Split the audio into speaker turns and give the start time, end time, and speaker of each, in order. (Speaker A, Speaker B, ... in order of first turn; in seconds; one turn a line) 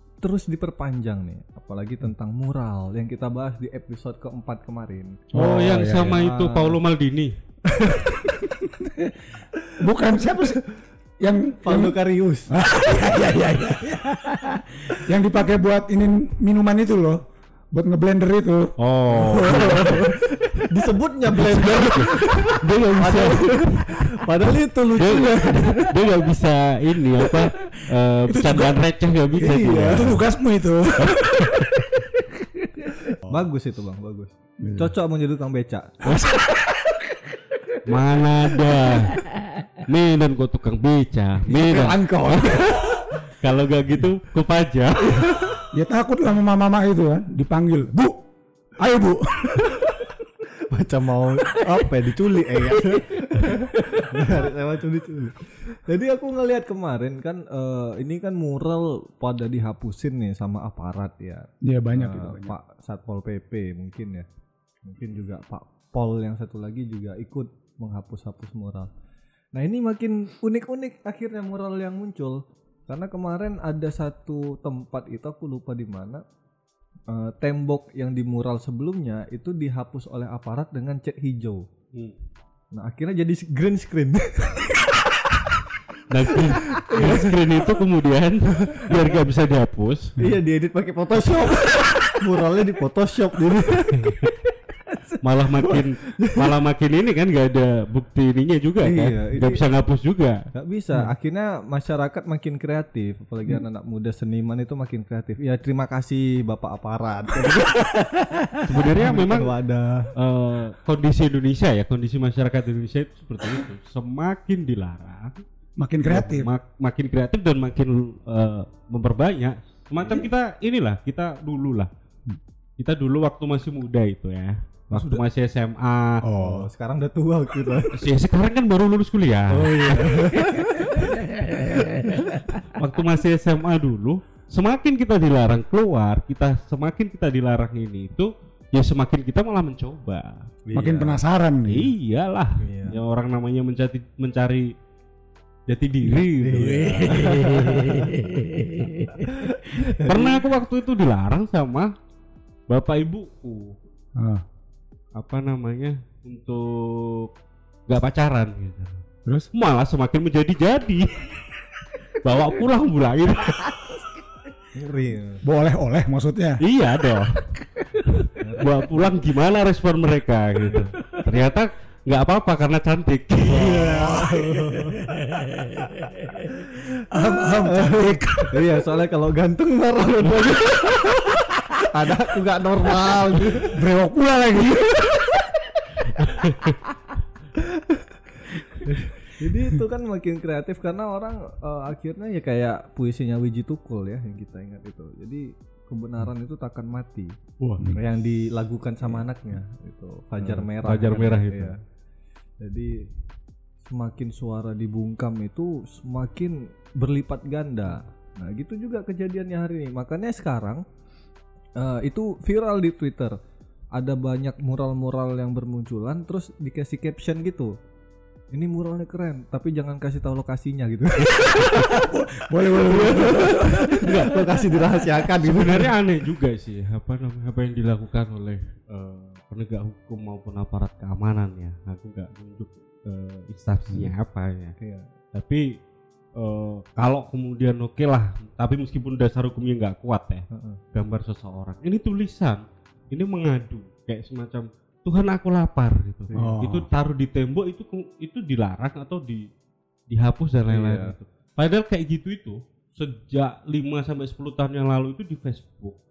Speaker A: 0.2-5.3
Speaker B: 5.3-6.2
Speaker C: 5.3-7.3
Speaker A: 5.9-6.8
Speaker A: 7.7-8.2
Speaker B: 8.3-9.2
Speaker B: 9.8-10.6
Speaker B: 11.2-14.0
Speaker A: 11.6-12.5
Speaker B: 15.0-18.7
Speaker C: 18.8-20.1
Speaker A: 19.2-25.9
Speaker C: 21.3-24.2
Speaker C: 24.9-30.2
Speaker B: 28.3-28.8
Speaker B: 29.4-32.0
Speaker A: 29.4-30.2
Speaker C: 31.0-31.9
Speaker B: 33.1-33.4
Speaker A: 33.3-36.3
Speaker B: 34.6-34.9
Speaker B: 36.1-36.7
Speaker C: 37.8-39.2
Speaker C: 39.8-45.4
Speaker A: 41.6-43.0
Speaker B: 41.7-42.5
Speaker B: 45.7-49.8
Speaker A: 50.5-64.2
Speaker B: 61.6-62.5
Speaker A: 64.8-68.9
Speaker A: 69.5-76.2
Speaker A: 77.1-81.7
Speaker A: 82.7-84.9
Speaker C: 86.1-90.1
Speaker A: 86.7-87.4
Speaker A: 90.2-94.2
Speaker C: 93.9-94.3
Speaker C: 95.2-100.4
Speaker A: 95.6-96.5
Speaker A: 98.8-99.6
Speaker A: 100.5-110.1
Speaker C: 108.6-109.5
Speaker C: 110.1-115.4
Speaker B: 115.8-116.5
Speaker C: 116.0-121.9
Speaker C: 122.8-126.2
Speaker B: 124.9-125.2
Speaker B: 126.2-126.7
Speaker A: 126.4-128.0
Speaker C: 127.9-130.0
Speaker A: 129.5-132.2
Speaker C: 132.7-140.5
Speaker A: 140.6-141.2
Speaker B: 140.7-141.9
Speaker C: 141.7-144.7
Speaker A: 142.6-143.0
Speaker C: 145.7-148.2
Speaker A: 146.2-150.4
Speaker C: 149.9-151.9
Speaker C: 152.7-153.8
Speaker B: 154.2-154.4
Speaker C: 155.1-157.3
Speaker C: 157.9-161.4
Speaker C: 162.1-163.9
Speaker A: 164.7-165.4
Speaker B: 165.4-166.6
Speaker C: 166.6-167.4
Speaker C: 168.1-173.9
Speaker A: 168.4-168.8
Speaker A: 170.6-170.9
Speaker A: 173.5-175.1
Speaker B: 173.6-175.8
Speaker B: 176.5-178.7
Speaker A: 177.5-183.8
Speaker B: 183.7-185.8
Speaker C: 186.2-186.8
Speaker A: 187.6-188.2
Speaker A: 188.8-197.3
Speaker B: 197.6-198.0
Speaker A: 197.9-201.8
Speaker C: 200.4-201.7
Speaker A: 202.6-203.1
Speaker A: 203.9-210.8
Speaker A: 211.8-213.3
Speaker A: 213.9-217.7
Speaker A: 218.5-222.1
Speaker B: 221.6-224.3
Speaker A: 222.7-225.9
Speaker C: 224.0-224.4
Speaker C: 225.4-234.7
Speaker A: 234.8-235.1
Speaker C: 235.3-235.8
Speaker C: 236.3-249.5
Speaker A: 240.5-240.8
Speaker A: 246.3-246.6
Speaker B: 246.3-246.9
Speaker C: 250.1-256.0
Speaker A: 250.7-251.1